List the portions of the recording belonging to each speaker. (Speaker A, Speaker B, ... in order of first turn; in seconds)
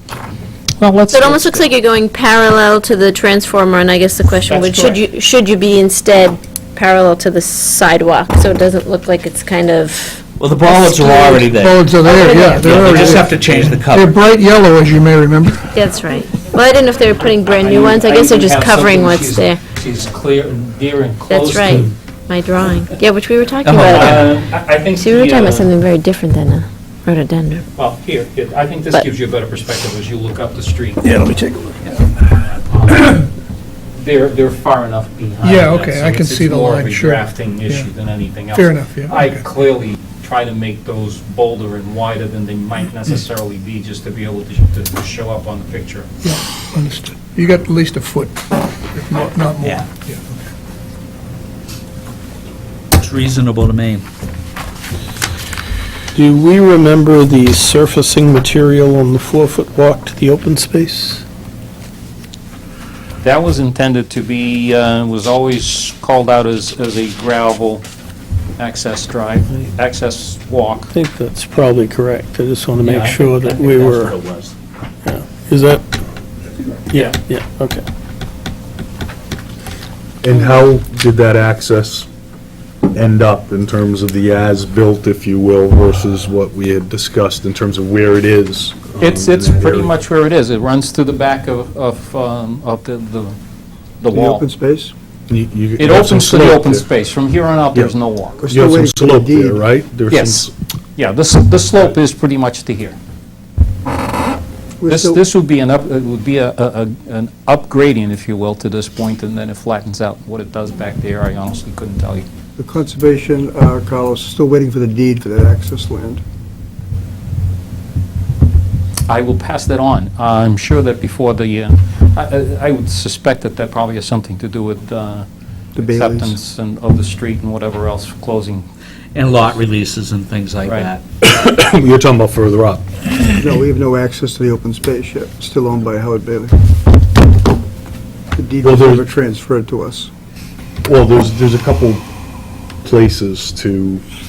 Speaker A: 0.8-1.7, 4.5-5.0, 17.4-21.9, 23.6-25.7, 27.8-31.2, 32.6-33.3, 34.0-46.1, 63.2-67.8, 68.6-70.9, 72.8-73.2, 89.0-93.4, 94.0-94.4, 95.8-98.4, 100.1-103.0, 104.9-112.2, 119.1-128.7
Speaker B: 1.1-11.4, 12.0-12.8, 15.7-19.6, 21.3-24.2, 25.0-27.6
Speaker C: 10.4-14.1, 49.6-49.9, 53.0-54.0, 73.0-74.5, 129.1-131.0
Speaker D: 11.4-15.7, 35.4-37.9, 38.5-39.4, 46.2-50.3
Speaker E: 31.1-31.7, 56.1-61.2, 70.9-74.1, 75.0-75.8, 76.9-77.8
Speaker F: 80.2-82.1, 82.9-89.9, 95.3-96.8, 98.5-100.5, 131.2-132.8, 138.6-139.1, 140.8-142.0, 142.8-144.0
Speaker G: 94.1-94.9, 98.4-99.6, 104.8-105.2, 112.6-116.2, 125.8-126.3, 133.4-136.5, 138.3-140.1